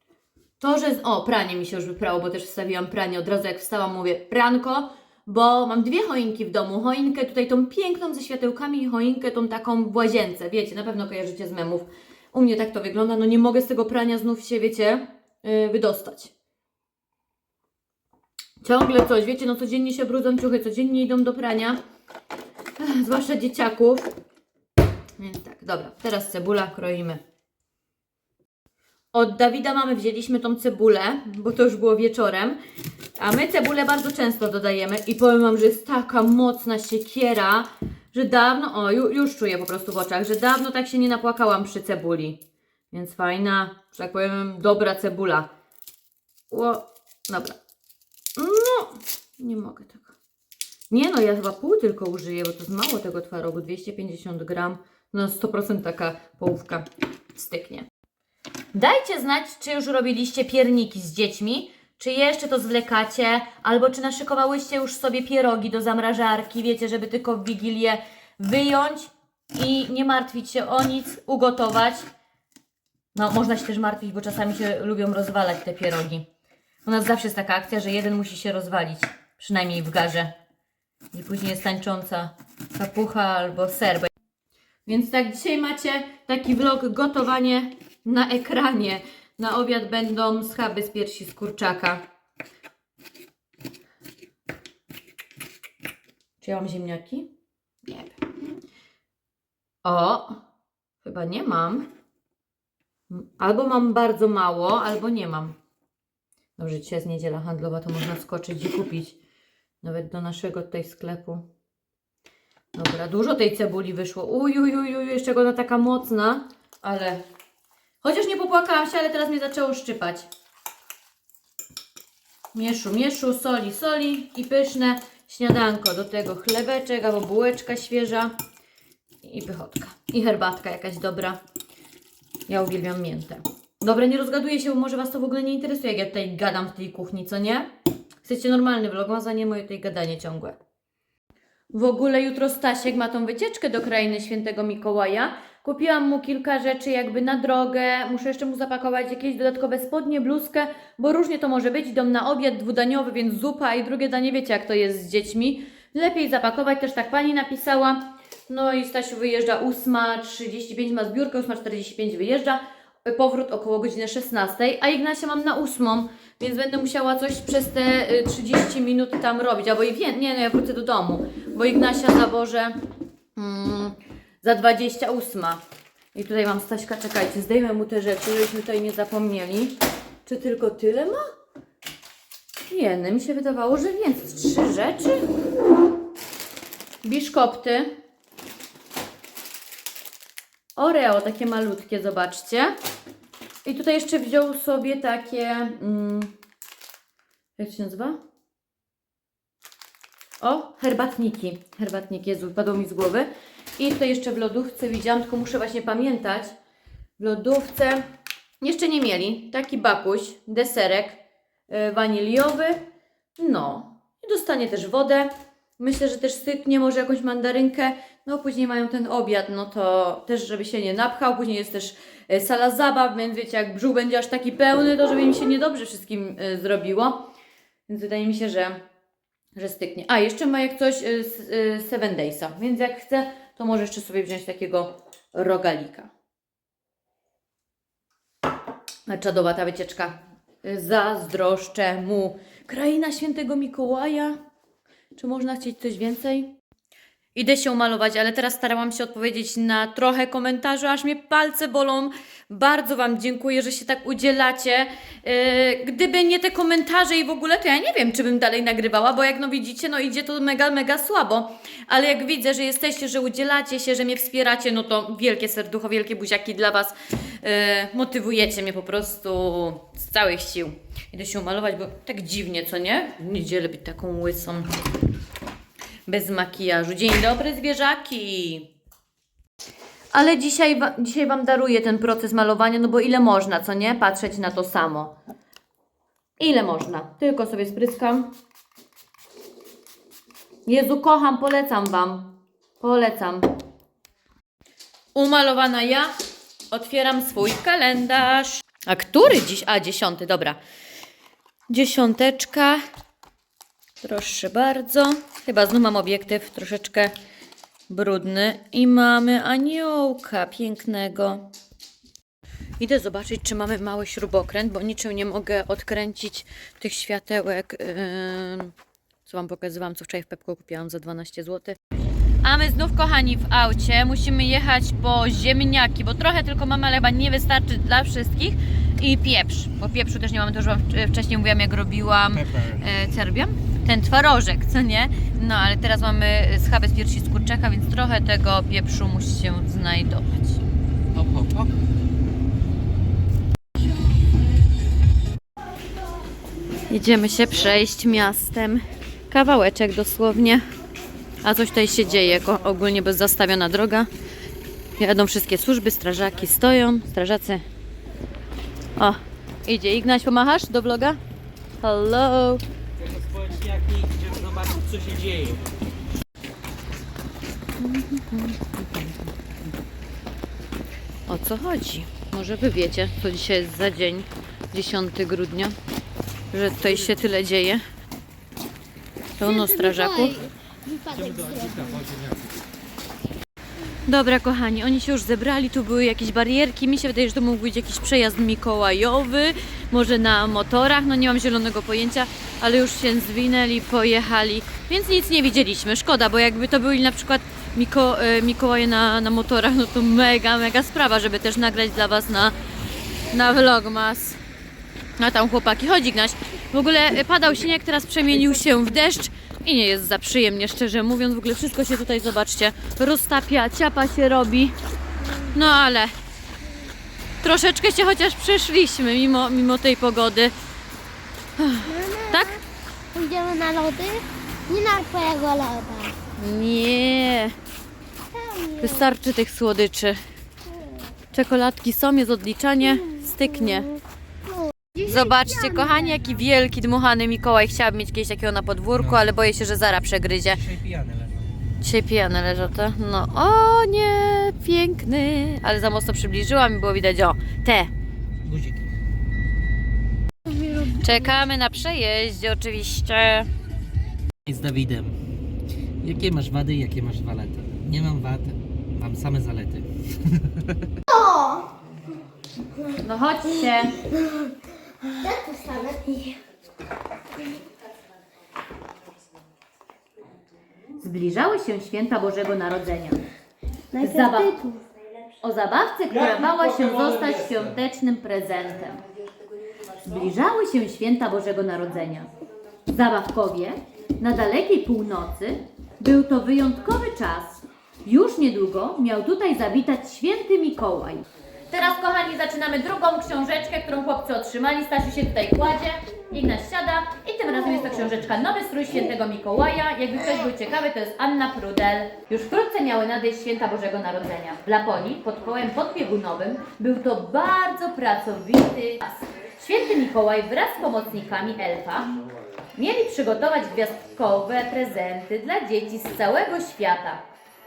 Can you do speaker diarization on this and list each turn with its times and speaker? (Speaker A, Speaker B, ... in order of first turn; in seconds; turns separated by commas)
Speaker A: 0.6-16.3, Speaker A: 18.6-21.8, Speaker A: 22.8-24.1, Speaker A: 25.2-27.2, Speaker A: 29.1-32.6, Speaker A: 33.2-45.5, Speaker A: 46.5-47.6, Speaker A: 48.4-50.1, Speaker A: 50.9-57.9, Speaker A: 58.7-72.0, Speaker A: 73.1-76.2, Speaker A: 76.8-80.3, Speaker A: 81.1-84.1, Speaker A: 84.8-92.0, Speaker A: 96.4-97.3, Speaker A: 97.8-98.2, Speaker A: 99.8-100.4, Speaker A: 101.0-101.8, Speaker A: 103.1-105.5, Speaker A: 106.6-109.2, Speaker A: 109.8-111.5, Speaker A: 112.7-117.2, Speaker A: 118.0-120.3, Speaker A: 122.5-128.3, Speaker A: 129.2-131.4, Speaker A: 132.5-137.7, Speaker A: 138.2-140.6, Speaker A: 141.7-172.8, Speaker A: 173.3-175.6, Speaker A: 176.1-181.2, Speaker A: 182.7-185.2, Speaker A: 187.0-187.9, Speaker A: 190.8-192.7, Speaker A: 193.6-196.3, Speaker A: 197.6-198.2, Speaker A: 200.4-206.5, Speaker A: 207.2-208.0, Speaker A: 208.6-212.8, Speaker A: 213.4-227.3, Speaker A: 227.9-228.8, Speaker A: 229.6-236.1, Speaker A: 239.1-244.4, Speaker A: 245.2-246.5, Speaker A: 247.3-274.7, Speaker A: 276.1-278.7, Speaker A: 280.1-285.1, Speaker A: 286.4-288.3, Speaker A: 290.6-293.5, Speaker A: 295.1-296.1, Speaker A: 296.7-300.6, Speaker A: 301.7-302.8, Speaker A: 304.0-307.1, Speaker A: 307.9-311.5, Speaker A: 312.8-318.7, Speaker A: 319.2-321.8, Speaker A: 322.4-340.6, Speaker B: 332.4-332.8, Speaker B: 341.1-341.7, Speaker A: 346.9-350.6, Speaker A: 351.4-354.1, Speaker A: 355.0-357.6, Speaker A: 358.9-361.2, Speaker A: 361.8-362.6, Speaker B: 363.1-365.6, Speaker A: 367.8-369.1, Speaker A: 371.3-375.7, Speaker A: 376.5-377.8, Speaker A: 379.4-380.4, Speaker C: 379.4-382.0, Speaker B: 381.3-382.4, Speaker A: 384.1-402.5, Speaker A: 403.3-404.4, Speaker A: 405.2-414.7, Speaker A: 415.5-416.1, Speaker A: 417.4-420.5, Speaker A: 421.6-422.6, Speaker C: 421.9-422.5, Speaker C: 423.1-426.1, Speaker A: 426.4-427.6, Speaker C: 428.3-429.0, Speaker A: 428.8-430.2, Speaker A: 431.3-434.0, Speaker C: 434.6-435.0, Speaker A: 435.0-440.6, Speaker B: 440.5-441.5, Speaker A: 441.8-447.9, Speaker B: 448.4-448.9, Speaker A: 450.8-453.5, Speaker B: 454.4-455.1, Speaker B: 456.0-460.9, Speaker C: 461.1-461.6, Speaker A: 463.0-464.0, Speaker C: 465.1-466.4, Speaker A: 471.0-473.2, Speaker C: 473.9-474.8, Speaker A: 474.0-474.6, Speaker A: 475.4-479.0, Speaker A: 480.0-482.3, Speaker A: 482.9-512.1, Speaker A: 512.7-517.2